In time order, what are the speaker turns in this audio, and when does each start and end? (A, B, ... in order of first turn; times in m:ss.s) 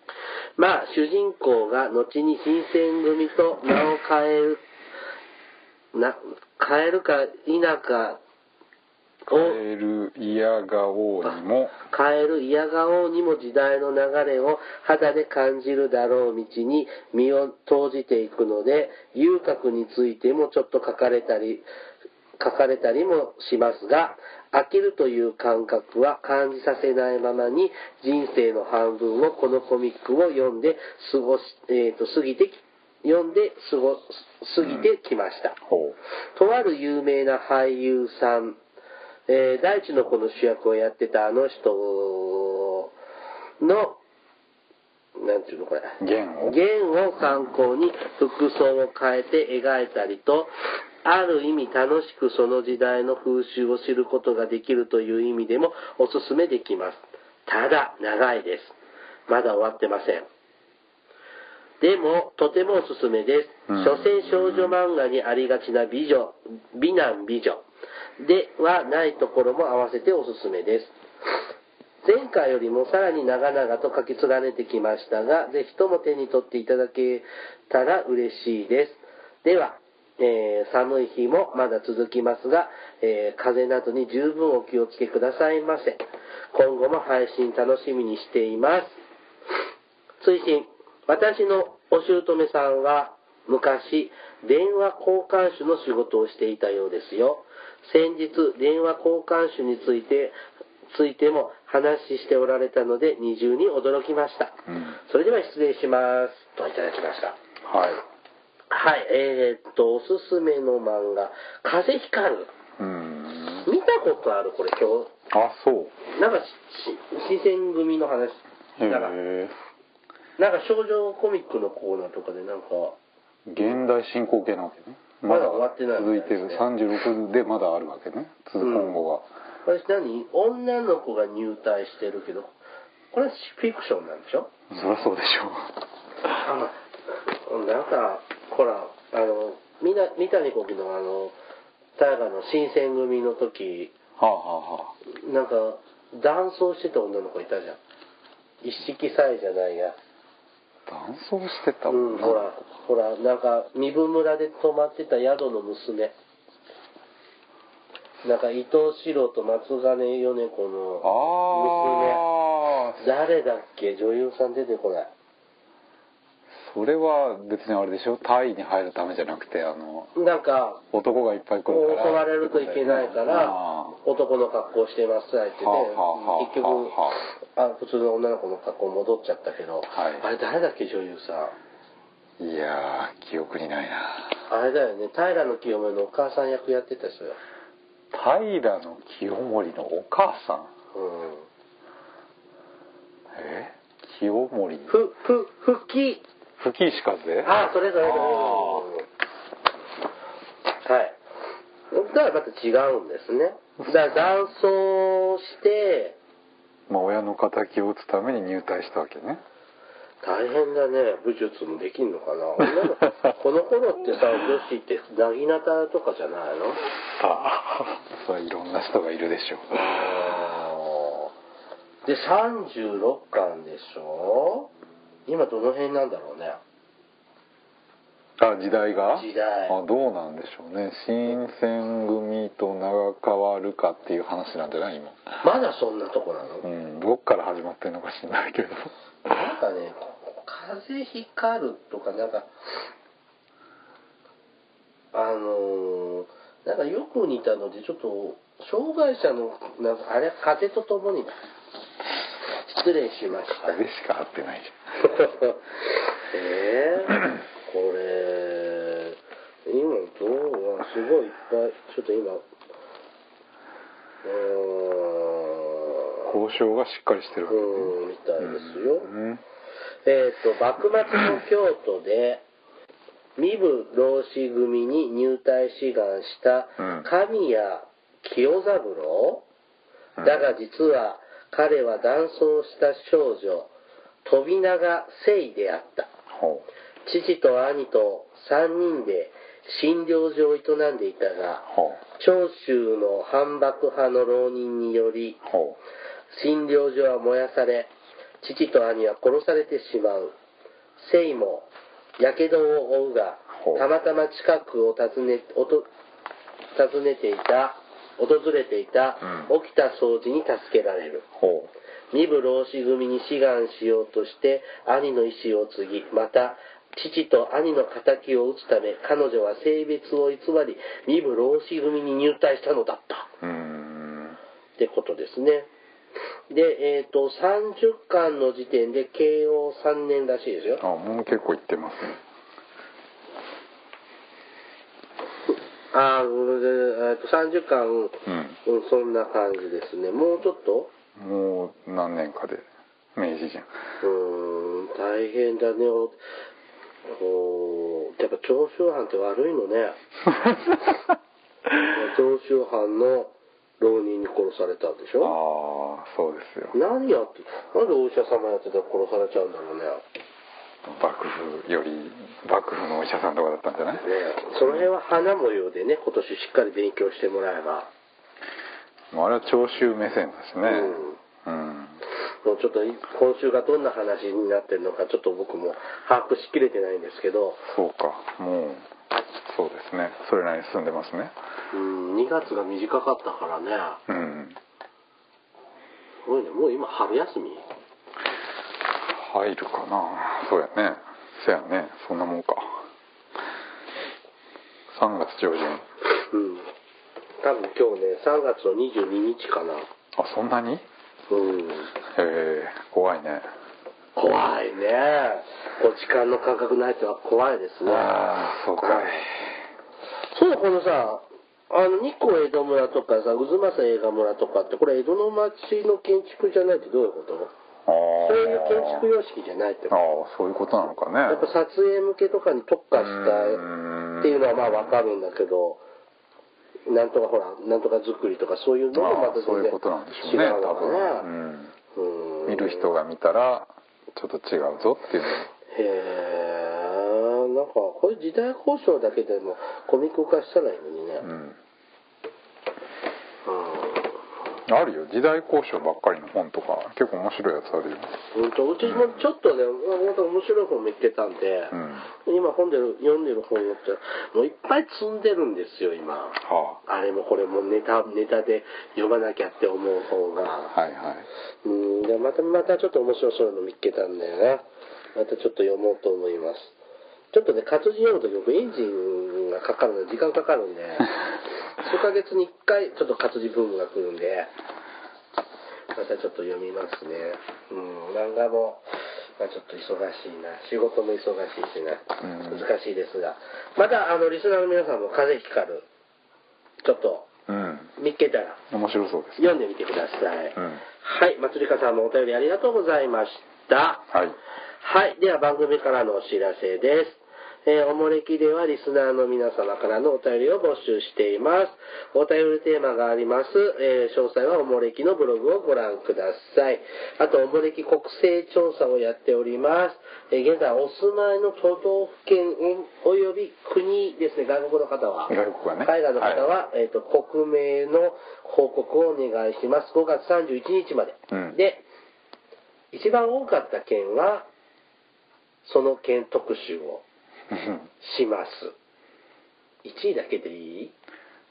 0:00.6-0:04.6 A
0:05.9-0:08.2 A
0:09.3-0:09.6 A
0:09.3-0:11.8 B
0:11.9-0:21.7 A
0:22.4-0:35.6 A
0:35.7-0:36.0 B
0:36.4-0:38.6 A
0:39.3-0:42.9 A
0:43.6-0:44.0 A
0:45.2-0:50.5 A
0:46.0-0:46.6 B
0:51.0-0:58.8 A
0:59.3-1:00.3 A
1:01.8-1:07.6 A
1:03.7-1:04.8 B
1:08.2-1:10.9 A
1:12.0-1:26.0 A
1:26.5-1:29.0 A
1:30.2-1:40.4 A
1:40.9-1:47.4 A
1:44.7-1:45.0 B
1:47.6-1:48.0 B
1:48.7-1:52.5 A
1:52.8-1:53.7 B
1:53.6-1:55.1 A
1:55.3-1:56.0 B
1:56.1-1:59.2 A
1:58.8-1:59.6 B
2:00.4-2:03.0 A
2:03.5-2:09.3 B
2:05.3-2:06.6 A
2:08.6-2:09.0 A
2:09.6-2:12.5 A
2:13.1-2:14.5 A
2:14.7-2:15.8 B
2:16.4-2:21.4 A
2:22.0-2:23.9 A
2:24.2-2:25.0 B
2:25.1-2:27.8 A
2:28.6-2:30.0 A
2:30.9-2:32.5 B
2:31.9-2:36.1 A
2:38.2-2:42.2 A
2:41.0-2:43.0 B
2:43.0-2:45.1 A
2:46.6-2:50.1 B
2:50.2-2:50.8 A
2:50.9-2:54.0 B
2:51.7-3:01.6 A
2:55.6-2:57.2 B
2:59.9-3:00.2 B
3:02.4-3:04.3 B
3:04.5-3:07.4 A
3:08.1-3:10.7 B
3:10.9-3:11.5 A
3:13.3-3:14.9 B
3:14.9-3:16.2 A
3:16.6-3:18.9 B
3:17.4-3:19.0 A
3:20.8-3:21.2 A
3:21.9-3:26.2 A
3:23.8-3:24.3 B
3:26.9-3:29.4 B
3:30.2-3:36.8 A
3:37.1-3:39.9 B
3:39.8-3:41.3 A
3:42.0-3:44.7 A
3:45.3-3:46.6 A
3:48.4-3:55.2 B
3:49.2-3:49.8 A
3:55.4-3:56.6 A
3:56.6-3:58.9 B
3:59.3-4:02.5 A
4:05.1-4:11.4 A
4:12.6-4:13.8 A
4:13.5-4:15.0 B
4:15.1-4:15.6 A
4:16.3-4:22.4 A
4:24.2-4:26.3 A
4:26.3-4:29.4 B
4:27.5-4:29.1 A
4:30.0-4:32.4 A
4:33.4-4:39.4 A
4:36.8-4:37.1 B
4:40.2-4:40.4 B
4:40.2-4:43.7 A
4:44.2-4:46.1 A
4:46.3-4:46.6 B
4:47.1-4:55.4 A
4:51.7-4:52.0 B
4:55.5-4:55.8 B
4:56.3-5:00.3 A
5:01.0-5:01.7 A
5:02.2-5:05.9 A
5:03.5-5:03.8 B
5:06.8-5:11.3 A
5:11.4-5:11.7 B
5:12.1-5:23.3 A
5:23.4-5:24.4 B
5:24.8-5:25.7 A
5:26.5-5:30.8 A
5:30.8-5:32.2 B
5:35.9-5:40.9 A
5:38.3-5:38.6 B
5:41.2-5:43.7 B
5:44.0-5:46.2 A
5:47.1-5:50.0 A
5:50.5-5:51.0 B
5:51.9-5:55.4 A
5:55.2-5:56.8 B
5:56.7-6:00.0 A
6:00.9-6:04.1 B
6:04.0-6:07.9 A
6:09.1-6:12.0 B
6:10.6-6:11.2 A
6:12.4-6:17.7 A
6:17.7-6:18.9 B
6:19.5-6:21.3 B
6:21.7-6:24.0 A
6:24.1-6:24.6 B
6:26.2-6:27.6 A
6:29.1-6:32.8 B
6:34.9-6:35.8 B
6:36.1-6:36.7 A
6:37.4-6:39.9 A
6:40.2-6:40.8 B
6:41.3-6:41.9 A
6:42.0-6:43.5 B
6:44.2-6:48.1 A
6:47.8-6:49.4 B
6:48.8-6:49.2 A
6:50.3-6:57.5 A
6:57.9-6:59.1 B
6:58.2-7:00.0 A
6:59.9-7:01.5 B
7:01.3-7:03.6 A
7:03.0-7:05.0 B
7:04.2-7:05.8 A
7:06.9-7:11.3 A
7:08.9-7:11.7 B
7:12.0-7:12.9 A
7:12.5-7:15.5 B
7:15.7-7:21.3 A
7:21.2-7:21.6 B
7:23.4-7:24.1 A
7:24.7-7:28.1 B
7:28.3-7:40.7 A
7:31.7-7:32.1 B
7:36.4-7:36.8 B
7:40.7-7:41.3 B
7:41.6-7:44.6 A
7:45.2-7:46.8 A
7:47.3-7:51.2 A
7:51.8-7:54.5 A
7:55.9-7:58.8 A
7:59.4-8:05.8 A
8:02.2-8:02.6 B
8:06.8-8:07.3 A
8:07.5-8:07.9 B
8:08.0-8:08.6 A
8:08.7-8:09.5 B
8:09.4-8:14.1 A
8:10.6-8:10.8 B
8:14.1-8:14.4 B
8:14.8-8:41.8 A
8:35.3-8:36.5 B
8:41.3-8:41.6 B
8:42.9-8:44.5 A
8:45.6-8:47.0 A
8:47.5-8:47.8 B
8:48.0-8:48.7 A
8:49.8-8:50.9 A